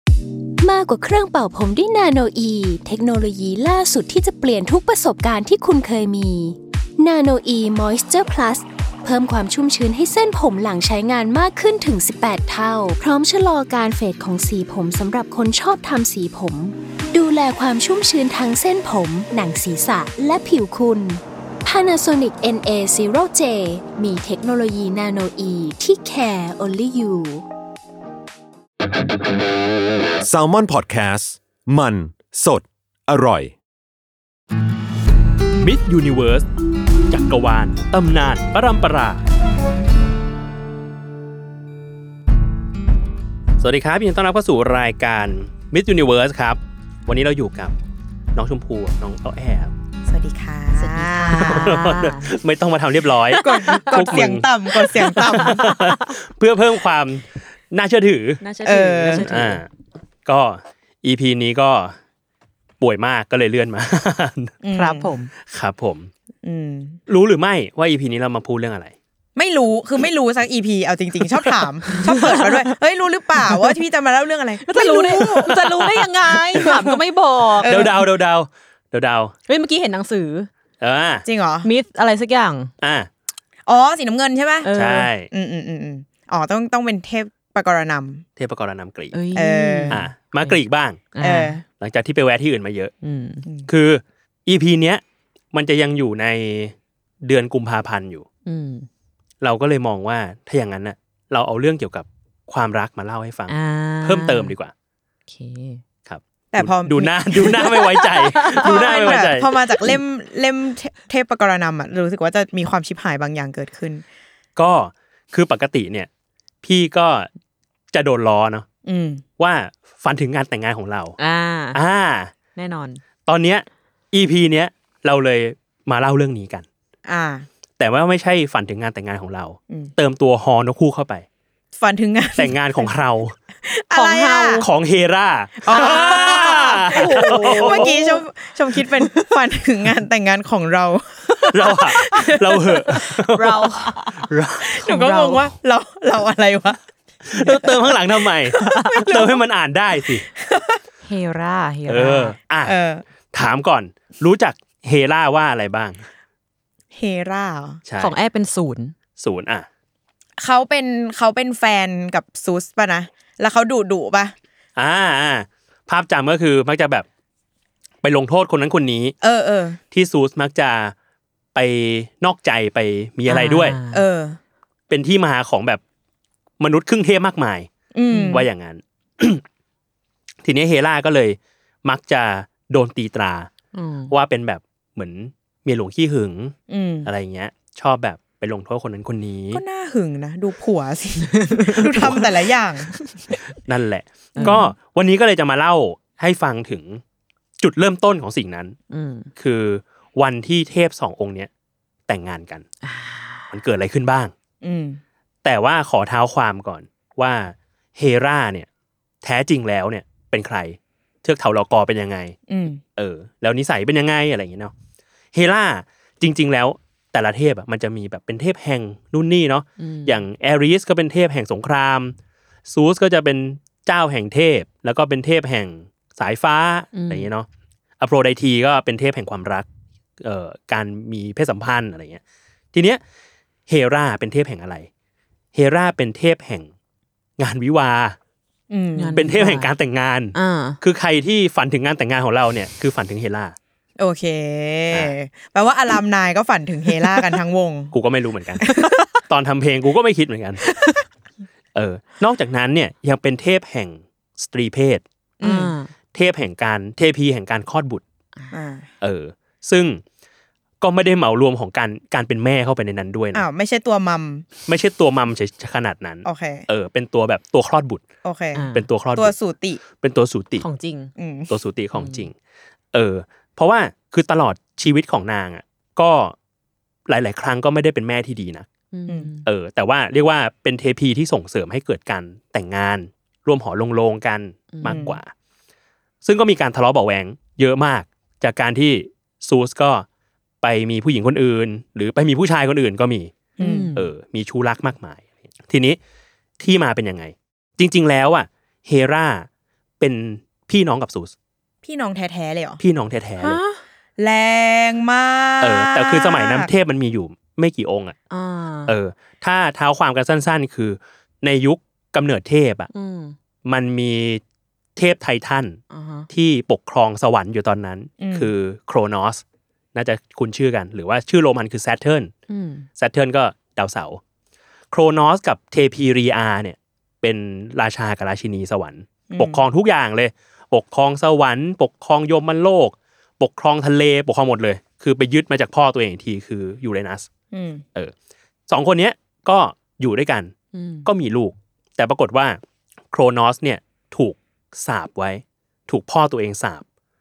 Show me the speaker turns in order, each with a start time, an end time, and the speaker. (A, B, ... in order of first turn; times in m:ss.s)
0:00.6-0:27.4 A
0:30.2-0:33.6 B
0:35.6-0:36.5 C
0:37.1-0:39.2 C
0:43.6-0:47.8 C
0:48.4-0:49.7 C
0:50.1-0:51.8 D
0:50.8-0:52.3 E
0:51.3-0:54.5 C
0:53.3-0:55.8 E
0:53.3-0:55.8 D
0:55.1-0:58.4 C
0:58.4-0:59.6 E
0:58.6-0:59.3 D
0:59.0-0:59.7 C
1:00.2-1:02.0 C
1:02.8-1:04.6 C
1:04.6-1:05.1 D
1:04.7-1:05.3 E
1:05.4-1:06.1 C
1:06.4-1:07.0 D
1:07.1-1:08.9 C
1:09.4-1:15.7 D
1:11.9-1:12.7 E
1:13.5-1:13.7 E
1:14.6-1:17.8 E
1:15.6-1:16.0 C
1:16.6-1:17.0 D
1:17.6-1:18.0 D
1:17.6-1:19.3 C
1:19.5-1:20.5 E
1:20.8-1:21.3 C
1:21.3-1:21.7 D
1:21.6-1:22.7 E
1:22.8-1:23.1 C
1:23.7-1:28.2 D
1:24.6-1:25.1 E
1:24.7-1:25.3 C
1:28.4-1:29.1 C
1:29.1-1:30.6 E
1:29.3-1:30.0 D
1:29.9-1:31.0 C
1:31.1-1:31.6 E
1:31.2-1:31.6 D
1:31.8-1:32.9 C
1:33.0-1:33.4 E
1:33.7-1:35.0 C
1:35.5-1:38.3 C
1:38.5-1:38.9 E
1:39.4-1:44.7 C
1:43.5-1:44.5 E
1:45.3-1:45.8 E
1:46.1-1:49.5 C
1:46.5-1:54.0 D
1:47.7-1:49.3 E
1:54.6-1:56.1 C
1:56.6-1:57.3 C
1:57.9-1:58.7 C
1:58.8-1:59.2 D
1:59.4-2:01.2 C
2:01.2-2:01.8 E
2:01.7-2:02.3 C
2:02.6-2:03.0 E
2:03.3-2:06.7 C
2:07.1-2:07.5 D
2:07.8-2:11.3 C
2:11.8-2:12.9 D
2:12.4-2:13.4 C
2:13.6-2:14.7 D
2:13.9-2:14.7 E
2:14.6-2:17.9 C
2:15.6-2:18.2 E
2:15.6-2:23.1 D
2:18.8-2:19.4 E
2:21.5-2:24.8 C
2:23.0-2:24.1 E
2:24.7-2:26.8 D
2:24.8-2:25.5 E
2:27.3-2:30.3 C
2:27.4-2:28.0 D
2:28.5-2:29.4 D
2:28.6-2:29.0 E
2:30.2-2:30.8 D
2:31.0-2:32.4 E
2:31.9-2:32.8 C
2:32.6-2:33.0 D
2:33.3-2:36.1 C
2:36.9-2:37.8 D
2:37.9-2:38.2 C
2:38.0-2:38.9 E
2:39.2-2:39.7 C
2:40.4-2:44.4 D
2:44.8-2:47.1 C
2:48.0-2:49.2 C
2:49.2-2:49.8 D
2:49.9-2:50.9 C
2:51.6-2:53.8 C
2:53.3-2:54.0 E
2:53.9-2:54.4 D
2:54.9-2:55.8 C
2:56.6-2:57.7 C
2:57.9-2:58.5 D
2:58.2-2:59.4 C
3:00.4-3:03.5 C
3:03.7-3:04.1 E
3:04.1-3:09.6 C
3:06.7-3:07.1 D
3:09.5-3:13.1 D
3:11.4-3:12.2 E
3:13.5-3:17.0 C
3:14.4-3:14.7 D
3:14.4-3:14.6 E
3:17.6-3:18.8 C
3:18.9-3:19.3 E
3:19.4-3:21.5 C
3:22.1-3:22.7 C
3:22.8-3:23.5 E
3:23.5-3:24.3 C
3:24.6-3:25.0 D
3:25.4-3:28.7 C
3:29.2-3:32.4 C
3:32.5-3:32.8 D
3:33.0-3:34.7 C
3:35.3-3:42.2 C
3:39.8-3:40.2 E
3:42.7-3:47.5 C
3:46.9-3:47.3 E
3:48.0-3:49.7 C
3:50.2-3:52.2 C
3:52.7-3:53.0 C
3:53.7-3:54.9 C
3:55.5-3:56.7 C
3:57.4-3:58.2 C
3:58.7-3:59.3 D
3:59.0-3:59.7 E
3:59.2-4:03.6 C
4:00.4-4:00.8 E
4:04.0-4:08.0 D
4:07.9-4:08.7 C
4:08.6-4:09.0 D
4:08.7-4:09.0 E
4:09.2-4:10.6 C
4:11.8-4:15.0 C
4:15.4-4:15.8 D
4:15.4-4:15.9 E
4:16.1-4:18.0 C
4:18.5-4:18.9 D
4:19.0-4:20.0 C
4:20.8-4:23.5 C
4:23.3-4:24.5 D
4:24.7-4:28.0 C
4:26.2-4:26.7 D
4:28.2-4:29.8 D
4:28.6-4:28.9 E
4:28.7-4:29.3 C
4:30.0-4:30.6 C
4:30.6-4:31.1 E
4:31.2-4:31.5 D
4:31.5-4:32.4 C
4:31.9-4:32.3 E
4:32.9-4:36.4 C
4:37.1-4:38.7 C
4:38.9-4:39.5 E
4:39.4-4:45.3 C
4:44.7-4:45.1 E
4:44.8-4:45.2 D
4:46.2-4:50.1 C
4:50.6-4:53.4 C
4:53.6-4:53.9 D
4:53.6-4:54.1 E
4:54.0-4:56.0 C
4:56.6-4:59.5 C
5:00.0-5:01.3 C
5:01.8-5:02.8 D
5:02.8-5:03.6 C
5:03.4-5:03.8 E
5:04.2-5:06.7 D
5:05.6-5:08.2 C
5:08.3-5:08.9 E
5:08.9-5:12.9 C
5:12.9-5:13.4 E
5:13.6-5:14.4 C
5:15.0-5:15.8 C
5:15.9-5:16.3 E
5:16.3-5:19.4 C
5:18.2-5:18.5 D
5:19.9-5:22.3 C
5:22.5-5:22.9 E
5:23.0-5:24.2 C
5:24.9-5:37.3 C
5:29.3-5:29.6 D
5:37.5-5:37.8 D
5:38.7-5:42.6 C
5:40.7-5:41.1 E
5:43.1-5:46.8 C